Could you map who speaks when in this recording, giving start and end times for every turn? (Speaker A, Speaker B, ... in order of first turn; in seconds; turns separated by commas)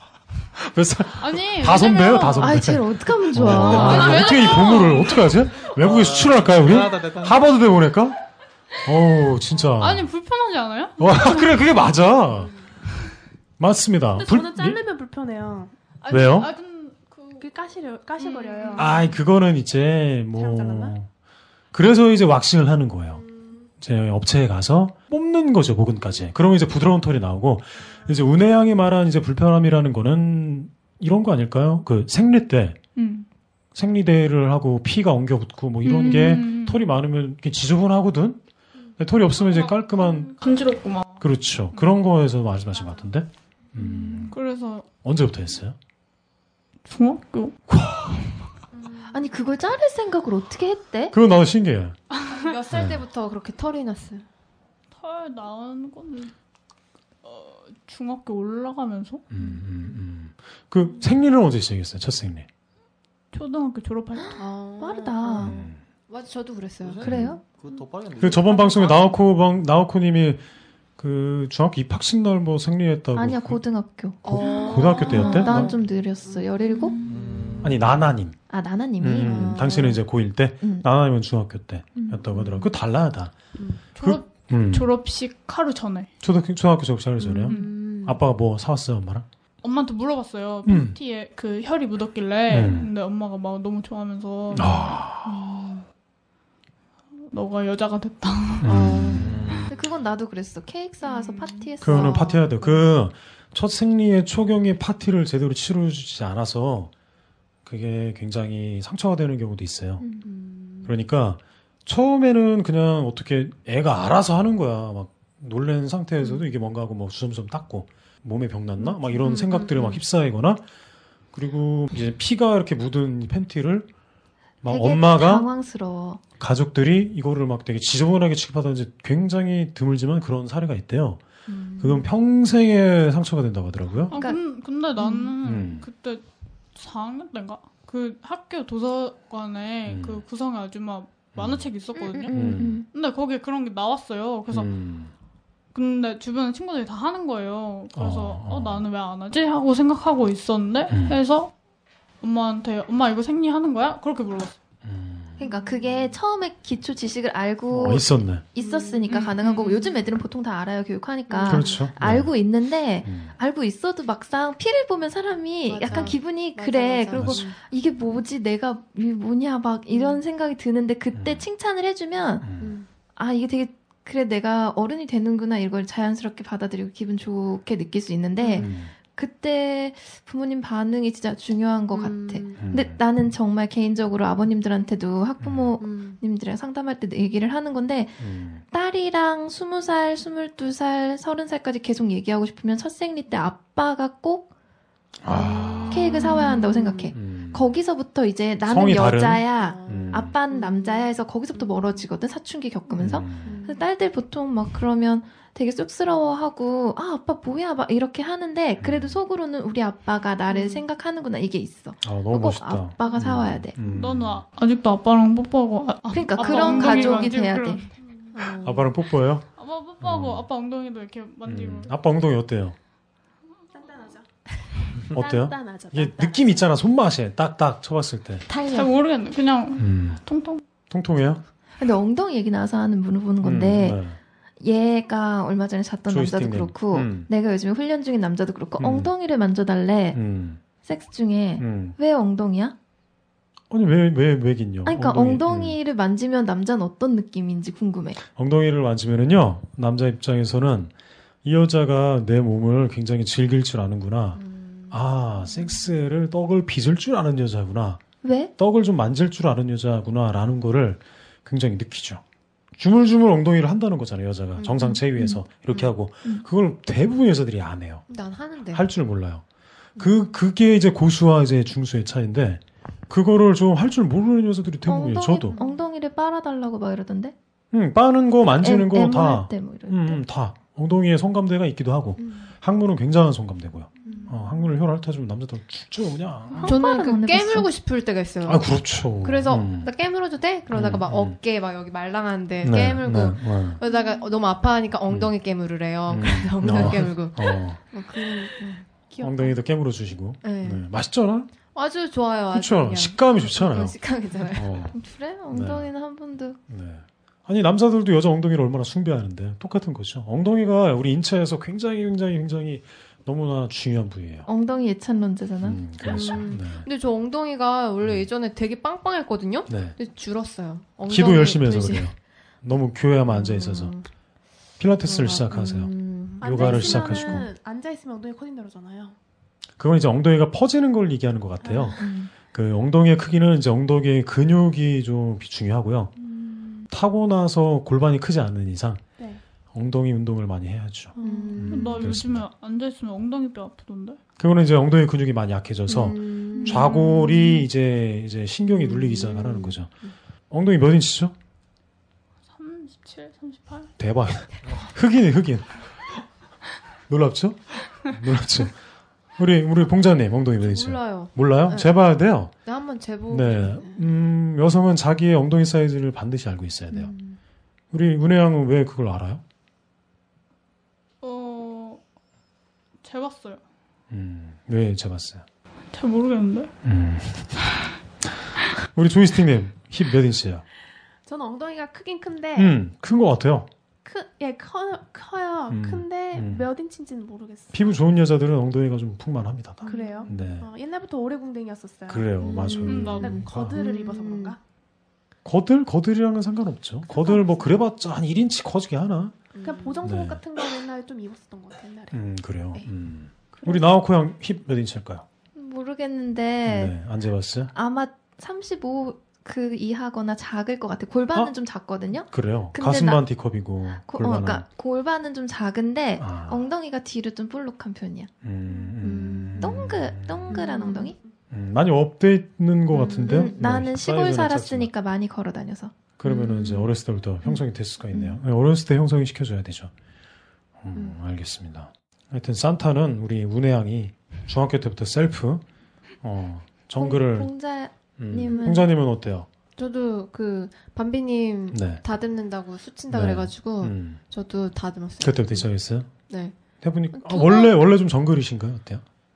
Speaker A: 0.6-8.2, Speaker B: 1.2-2.6, Speaker C: 2.4-4.3, Speaker B: 3.4-5.2, Speaker D: 5.7-7.5, Speaker A: 8.8-10.1, Speaker B: 9.8-11.6, Speaker A: 11.0-12.5, Speaker A: 13.6-14.8, Speaker E: 14.1-15.7, Speaker B: 16.0-17.4, Speaker A: 16.1-16.5, Speaker E: 17.4-19.1, Speaker A: 18.8-21.1, Speaker E: 20.4-20.9, Speaker A: 21.7-23.2, Speaker A: 23.8-32.8, Speaker B: 33.0-33.3, Speaker A: 33.7-38.4, Speaker B: 35.8-36.8, Speaker A: 39.0-40.3, Speaker B: 39.4-41.9, Speaker A: 41.2-44.4, Speaker F: 43.8-44.3, Speaker B: 44.3-44.9, Speaker A: 45.0-45.8, Speaker B: 46.9-47.6, Speaker A: 47.7-48.2, Speaker F: 48.7-49.4, Speaker C: 49.1-51.1, Speaker A: 51.1-52.0, Speaker F: 52.3-54.2, Speaker A: 52.7-53.0, Speaker B: 54.9-56.3, Speaker B: 57.2-59.2, Speaker A: 59.3-62.5, Speaker B: 63.3-64.4, Speaker C: 64.2-65.6, Speaker F: 64.3-67.1, Speaker A: 65.4-65.8, Speaker D: 66.8-69.1, Speaker A: 67.0-67.3, Speaker C: 67.0-67.4, Speaker A: 68.2-70.4, Speaker F: 68.2-69.0, Speaker A: 71.0-73.6, Speaker C: 73.1-77.0, Speaker F: 74.2-77.8, Speaker A: 74.2-75.8, Speaker D: 77.0-78.0, Speaker A: 77.6-78.3, Speaker C: 78.5-80.0, Speaker A: 79.0-83.3, Speaker F: 79.2-80.0, Speaker C: 80.6-80.9, Speaker C: 82.0-82.2, Speaker F: 82.3-82.7, Speaker B: 84.0-86.1, Speaker A: 84.0-84.9, Speaker A: 86.2-89.2, Speaker F: 87.2-88.2, Speaker B: 87.5-87.7, Speaker B: 89.6-94.9, Speaker A: 90.7-91.0, Speaker A: 92.5-92.9, Speaker A: 94.5-95.4, Speaker B: 97.3-98.7, Speaker A: 98.6-99.4, Speaker F: 98.6-99.3, Speaker D: 99.1-99.7, Speaker C: 99.7-102.8, Speaker B: 101.0-101.6, Speaker A: 101.8-106.9, Speaker A: 107.6-110.0, Speaker F: 110.2-110.9, Speaker A: 110.8-120.6, Speaker F: 119.1-120.0, Speaker A: 121.3-123.9, Speaker A: 124.6-125.5, Speaker C: 124.7-126.2, Speaker A: 126.4-131.2, Speaker A: 131.8-134.1, Speaker C: 134.1-134.4, Speaker B: 134.1-136.2, Speaker C: 135.0-135.3, Speaker A: 135.4-135.9, Speaker B: 136.7-142.3, Speaker A: 139.9-140.2, Speaker A: 141.3-141.7, Speaker C: 141.9-142.9, Speaker A: 142.3-142.8, Speaker B: 142.9-144.7, Speaker A: 144.5-145.1, Speaker B: 145.7-151.5, Speaker A: 147.9-148.8, Speaker A: 150.9-151.2, Speaker B: 152.2-154.6, Speaker A: 154.8-155.4, Speaker C: 155.4-172.4, Speaker F: 155.4-155.9, Speaker A: 157.7-158.4, Speaker E: 158.6-159.0, Speaker F: 158.8-160.0, Speaker F: 161.3-161.8, Speaker A: 161.4-162.3, Speaker A: 163.0-163.3, Speaker E: 165.7-166.2, Speaker F: 165.7-167.6, Speaker A: 167.1-167.4, Speaker F: 169.9-170.2, Speaker A: 171.1-171.4, Speaker A: 172.4-172.7, Speaker F: 172.6-172.9, Speaker C: 173.2-194.5, Speaker F: 178.4-178.7, Speaker A: 178.6-178.9, Speaker F: 181.9-182.6, Speaker A: 182.6-183.0, Speaker A: 185.4-185.7, Speaker F: 185.8-186.2, Speaker A: 188.2-188.6, Speaker A: 195.2-196.3, Speaker F: 195.3-197.1, Speaker C: 195.9-213.7, Speaker A: 197.1-197.7, Speaker A: 198.6-200.3, Speaker F: 199.8-200.9, Speaker E: 199.9-200.2, Speaker A: 203.0-203.6, Speaker F: 203.4-203.8, Speaker A: 208.8-209.2, Speaker F: 210.5-210.8, Speaker A: 212.0-214.4, Speaker B: 213.8-217.9, Speaker C: 216.1-217.8, Speaker F: 216.4-217.1, Speaker E: 216.5-217.3, Speaker E: 218.0-218.4, Speaker F: 218.3-218.9, Speaker A: 218.6-219.4, Speaker B: 219.6-221.9, Speaker A: 220.0-220.5, Speaker A: 221.4-222.8, Speaker E: 223.7-224.3, Speaker A: 225.1-228.4, Speaker E: 225.1-226.6, Speaker F: 228.5-228.8, Speaker B: 228.7-230.6, Speaker A: 229.8-230.2, Speaker A: 230.9-231.4, Speaker C: 231.8-234.0, Speaker A: 233.4-234.2, Speaker C: 234.6-240.2, Speaker A: 236.1-237.3, Speaker A: 238.8-239.1, Speaker A: 240.1-240.6, Speaker C: 240.8-242.7, Speaker A: 241.6-242.0, Speaker A: 243.7-245.8, Speaker C: 244.8-248.2, Speaker A: 248.3-250.9, Speaker A: 251.4-258.0, Speaker F: 254.3-255.0, Speaker C: 258.2-258.5, Speaker A: 258.6-262.2, Speaker A: 262.8-268.0, Speaker F: 264.6-265.0, Speaker C: 264.8-265.4, Speaker F: 268.1-268.8, Speaker A: 268.7-269.4, Speaker A: 270.0-275.6, Speaker C: 274.9-277.3, Speaker F: 275.5-275.8, Speaker A: 277.7-286.7, Speaker C: 278.6-280.2, Speaker F: 284.1-284.5, Speaker C: 286.6-287.7, Speaker F: 286.6-298.9, Speaker A: 288.4-289.9, Speaker A: 290.7-291.4, Speaker A: 292.6-293.8, Speaker A: 296.1-297.8, Speaker E: 299.1-299.5, Speaker A: 299.2-301.5, Speaker F: 300.4-300.9, Speaker F: 301.6-304.9, Speaker A: 302.5-304.0, Speaker A: 304.5-304.9, Speaker C: 304.9-306.6, Speaker A: 305.5-305.9, Speaker A: 306.7-314.5, Speaker C: 314.5-316.3, Speaker A: 315.6-316.9, Speaker F: 316.0-322.1, Speaker A: 319.7-320.0, Speaker A: 321.1-323.9, Speaker F: 323.3-324.1, Speaker A: 324.8-327.5, Speaker F: 325.0-327.3, Speaker E: 326.4-329.1, Speaker A: 329.8-336.1, Speaker E: 331.6-332.0, Speaker C: 332.0-332.3, Speaker A: 336.9-339.0, Speaker A: 339.7-342.5, Speaker F: 341.2-341.9, Speaker E: 341.2-342.0, Speaker B: 341.7-344.2, Speaker A: 344.4-349.9, Speaker F: 345.9-347.6, Speaker F: 348.7-350.1, Speaker A: 350.5-351.3, Speaker B: 352.5-353.9, Speaker A: 354.0-355.8, Speaker A: 357.1-358.8, Speaker A: 359.4-362.5, Speaker F: 360.6-361.9, Speaker F: 362.6-364.0, Speaker A: 363.3-367.1, Speaker F: 366.9-367.4, Speaker A: 367.9-369.4, Speaker B: 371.2-372.0, Speaker B: 373.0-373.6, Speaker A: 374.1-375.4, Speaker B: 375.9-376.7, Speaker A: 376.8-377.6, Speaker A: 378.4-380.6, Speaker E: 381.2-382.8, Speaker A: 382.5-383.7, Speaker E: 384.0-388.0, Speaker A: 385.7-386.7, Speaker A: 387.7-390.7, Speaker F: 389.8-390.3, Speaker E: 389.9-394.6, Speaker A: 392.1-393.8, Speaker F: 392.4-394.5, Speaker B: 392.9-393.4, Speaker A: 395.4-399.4, Speaker E: 397.2-397.8, Speaker F: 399.5-400.1, Speaker E: 399.6-402.2, Speaker A: 400.0-400.4, Speaker A: 402.1-405.2, Speaker E: 403.5-403.8, Speaker C: 405.6-406.9, Speaker A: 406.6-407.7, Speaker C: 407.7-413.2, Speaker A: 412.3-414.6, Speaker C: 414.0-418.3, Speaker A: 416.2-416.7, Speaker A: 418.4-420.6, Speaker F: 418.8-419.9, Speaker C: 419.6-421.1, Speaker F: 420.5-421.1, Speaker A: 421.5-424.9, Speaker F: 422.9-423.5, Speaker C: 423.0-425.9, Speaker A: 426.2-429.9, Speaker F: 426.2-426.9, Speaker C: 428.1-428.4, Speaker A: 430.8-435.6, Speaker A: 436.2-437.5, Speaker C: 436.9-438.8, Speaker A: 438.2-439.5, Speaker F: 438.5-438.8, Speaker F: 439.8-445.7, Speaker A: 441.7-442.0, Speaker A: 443.1-444.2, Speaker A: 445.2-446.1, Speaker F: 446.3-446.5, Speaker A: 446.8-449.0, Speaker F: 447.1-447.8